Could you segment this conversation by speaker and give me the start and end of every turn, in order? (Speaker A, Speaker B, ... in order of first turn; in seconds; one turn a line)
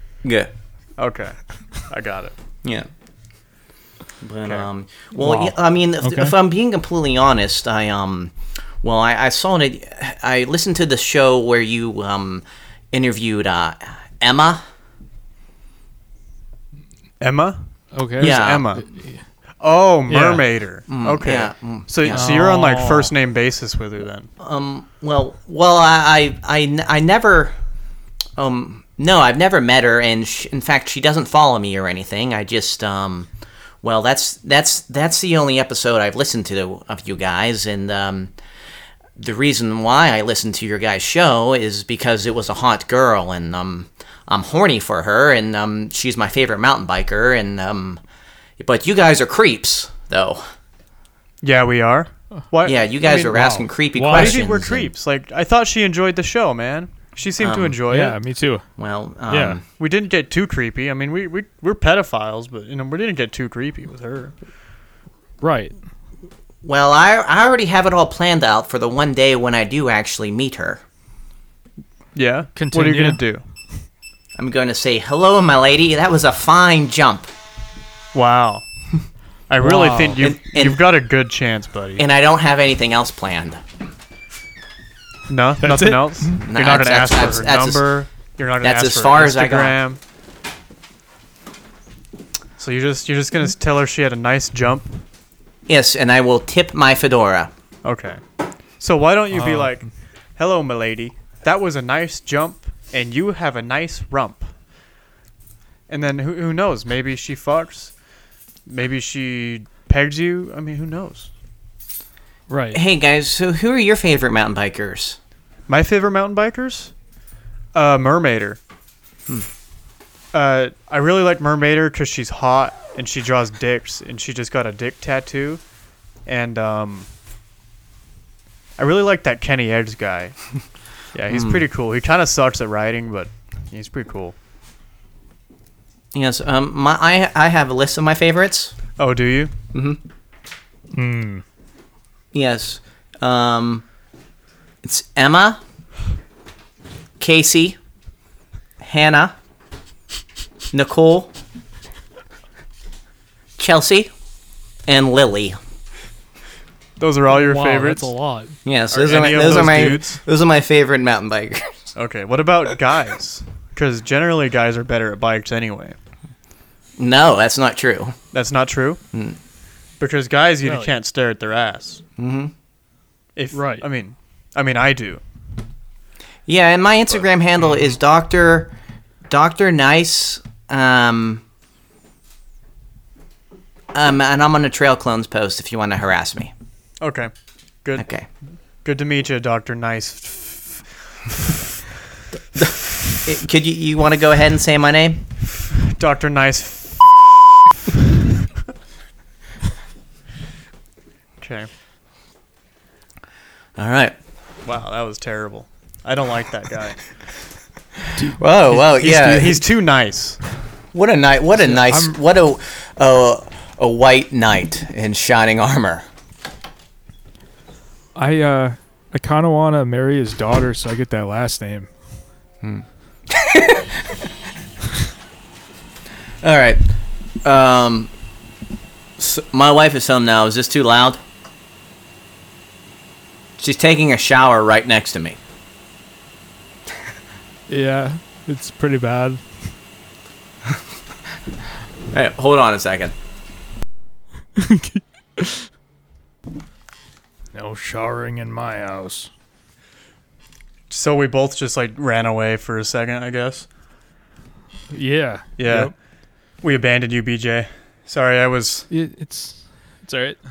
Speaker A: 0.2-0.5
Speaker B: 1.0-2.3
Speaker A: 2.6-2.9
Speaker A: 4.2-14.6
Speaker C: 5.2-6.4
Speaker B: 17.2-18.8
Speaker C: 17.9-19.2
Speaker A: 18.2-18.8
Speaker B: 19.6-24.3
Speaker C: 20.1-20.4
Speaker A: 20.9-22.4
Speaker C: 22.1-23.1
Speaker A: 24.4-27.6
Speaker A: 28.4-33.3
Speaker A: 33.8-38.3
Speaker A: 39.2-48.0
Speaker A: 48.6-50.5
Speaker B: 51.4-53.4
Speaker A: 52.6-54.9
Speaker C: 53.2-54.5
Speaker B: 54.1-58.2
Speaker A: 57.4-57.8
Speaker C: 57.9-58.6
Speaker A: 58.8-59.6
Speaker C: 59.3-59.6
Speaker B: 59.8-64.3
Speaker C: 65.4-65.8
Speaker A: 66.6-70.8
Speaker B: 72.2-73.4
Speaker C: 72.6-73.2
Speaker A: 74.4-77.3
Speaker B: 78.1-78.7
Speaker B: 79.5-82.0
Speaker C: 79.6-80.2
Speaker A: 80.2-80.8
Speaker A: 82.0-83.6
Speaker B: 85.3-90.0
Speaker C: 85.6-86.4
Speaker A: 86.4-87.9
Speaker A: 88.6-89.8
Speaker B: 92.6-95.0
Speaker A: 95.7-97.5
Speaker B: 97.8-98.2
Speaker B: 98.8-104.5
Speaker C: 99.3-99.7
Speaker B: 105.9-107.9
Speaker B: 108.7-111.3
Speaker C: 112.5-112.8
Speaker A: 112.7-115.2
Speaker B: 115.7-116.9
Speaker B: 117.7-118.6
Speaker B: 120.3-125.6
Speaker B: 126.3-127.1
Speaker B: 128.8-130.4
Speaker B: 131.1-134.3
Speaker A: 131.3-131.7
Speaker A: 136.1-138.8
Speaker B: 139.0-139.5
Speaker A: 139.7-140.0
Speaker C: 140.9-141.4
Speaker A: 142.3-143.8
Speaker A: 144.8-145.6
Speaker A: 147.2-147.8
Speaker A: 148.8-149.3
Speaker A: 150.7-151.3
Speaker A: 153.6-154.1
Speaker A: 154.9-155.6
Speaker B: 157.0-158.1
Speaker C: 157.3-158.6
Speaker A: 158.7-161.9
Speaker B: 158.9-160.2
Speaker B: 161.9-166.0
Speaker A: 167.0-168.2
Speaker B: 168.3-169.0
Speaker A: 169.1-169.4
Speaker B: 170.0-172.0
Speaker C: 170.6-170.9
Speaker A: 172.2-172.5
Speaker B: 173.4-175.2
Speaker C: 173.5-173.8
Speaker A: 176.5-178.8
Speaker A: 179.3-181.4
Speaker A: 183.9-186.5
Speaker B: 187.0-187.3
Speaker B: 187.8-188.1
Speaker A: 188.0-188.3
Speaker B: 188.8-190.8
Speaker A: 192.5-195.2
Speaker B: 195.7-197.4
Speaker B: 201.4-201.7
Speaker A: 203.8-204.2
Speaker B: 204.7-207.0
Speaker A: 208.4-209.6
Speaker B: 208.7-210.4
Speaker A: 210.9-216.1
Speaker C: 211.8-212.2
Speaker C: 218.2-221.9
Speaker A: 222.6-224.3
Speaker A: 226.4-228.1
Speaker A: 229.2-231.2
Speaker A: 233.6-235.4
Speaker C: 237.7-239.5
Speaker A: 242.1-243.1
Speaker C: 244.6-245.7
Speaker C: 247.5-249.3
Speaker B: 250.9-253.7
Speaker C: 254.9-255.9
Speaker B: 255.6-255.9
Speaker B: 256.6-258.9
Speaker C: 258.9-260.4